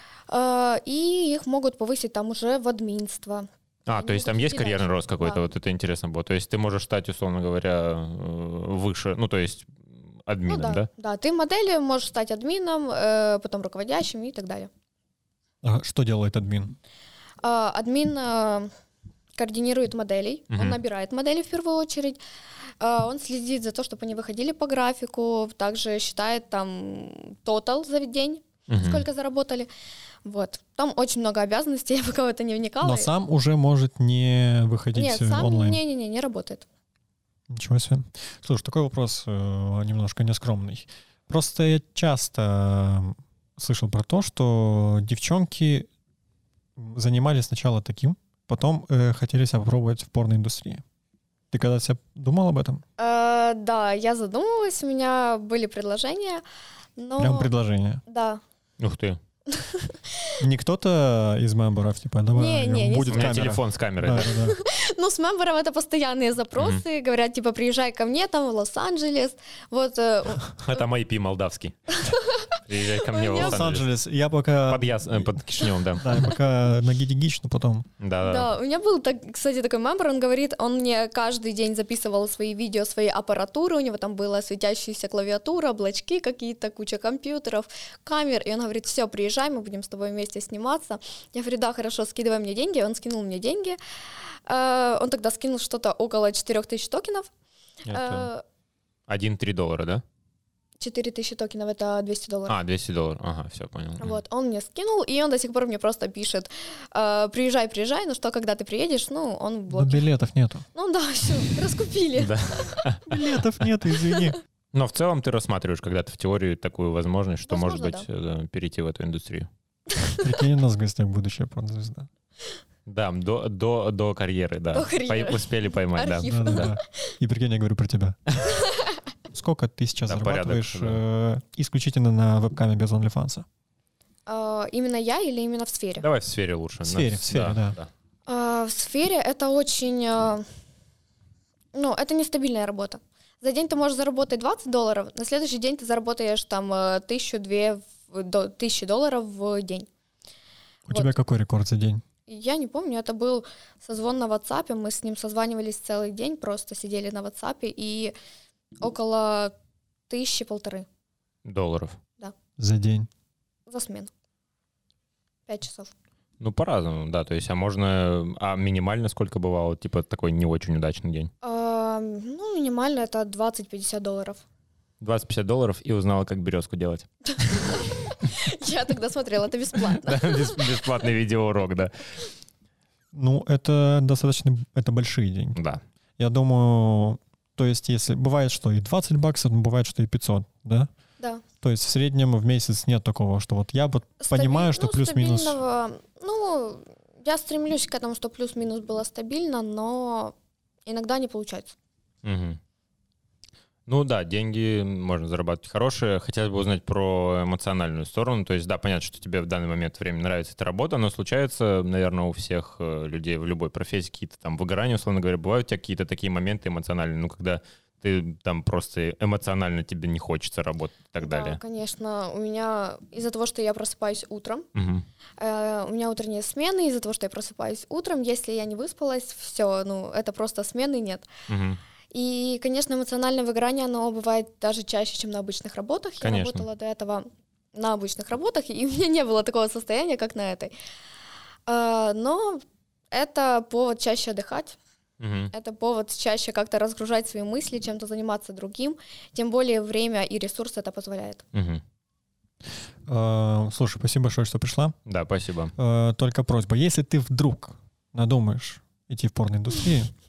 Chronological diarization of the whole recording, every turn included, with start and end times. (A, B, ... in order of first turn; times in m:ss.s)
0:00.3-0:05.4 A
0:03.9-0:10.9 B
0:10.5-0:14.7 A
0:15.6-0:16.7 C
0:17.4-0:18.7 A
0:19.4-0:22.2 A
0:20.5-0:20.8 B
0:22.8-0:29.7 A
0:28.7-0:29.0 B
0:30.2-0:33.1 A
0:32.8-0:35.8 C
0:34.9-0:36.6 A
0:37.5-0:45.9 C
0:46.8-0:50.8 C
0:51.5-0:52.8 C
0:53.0-0:56.4 A
0:57.0-0:57.5 A
0:57.2-0:58.0 C
0:58.1-0:58.4 A
0:58.8-0:59.2 B
0:59.5-1:00.3 A
1:00.4-1:04.6 C
1:02.3-1:03.4 A
1:03.1-1:04.4 B
1:04.4-1:10.8 A
1:06.6-1:06.8 B
1:10.6-1:11.7 B
1:12.0-1:13.6 A
1:12.7-1:13.9 B
1:13.4-1:15.4 C
1:14.7-1:16.2 B
1:16.0-1:17.9 C
1:18.0-1:18.5 B
1:18.2-1:33.8 A
1:34.5-1:37.3 A
1:37.8-1:38.3 C
1:37.9-1:38.4 A
1:39.1-1:40.0 B
1:40.8-1:42.6 A
1:42.5-1:44.2 B
1:44.0-1:50.0 A
1:49.7-1:50.6 C
1:50.7-1:52.8 A
1:52.2-1:53.0 B
1:53.1-1:54.4 C
1:54.7-1:59.5 B
1:57.5-1:58.0 A
1:59.9-2:00.3 A
2:00.2-2:02.1 C
2:02.9-2:06.7 B
2:04.7-2:06.8 A
2:06.3-2:08.3 C
2:08.6-2:09.0 A
2:09.3-2:13.4 C
2:10.0-2:11.0 B
2:14.3-2:16.0 A
2:16.0-2:17.9 B
2:16.8-2:17.7 C
2:18.3-2:20.4 A
2:21.7-2:29.9 A
2:30.9-2:32.0 C
2:30.9-2:31.2 A
2:32.3-2:38.1 A
2:38.8-2:39.5 A
2:40.1-2:40.9 A
2:41.4-2:42.0 B
2:42.6-2:43.1 C
2:43.7-2:44.1 A
2:45.5-2:45.9 A
2:46.4-2:51.3 B
2:51.4-2:54.4 A
2:55.0-2:57.8 B
2:57.4-3:00.8 A
3:00.0-3:01.9 B
3:03.1-3:05.6 C
3:05.6-3:05.8 B
3:06.2-3:10.9 C
3:11.6-3:15.6 C
3:14.2-3:20.3 A
3:20.8-3:21.7 A
3:22.2-3:22.6 B
3:23.9-3:41.6 B
3:41.2-3:44.7 A
3:44.7-3:45.0 B
3:45.4-3:51.3 A
3:51.5-3:51.8 B
3:52.1-4:00.7 A
3:56.2-3:56.6 B
4:01.7-4:04.8 A
4:05.2-4:05.5 B
4:05.5-4:11.4 A
4:11.5-4:11.8 B
4:13.1-4:15.0 C
4:15.0-4:15.7 B
4:15.8-4:20.1 C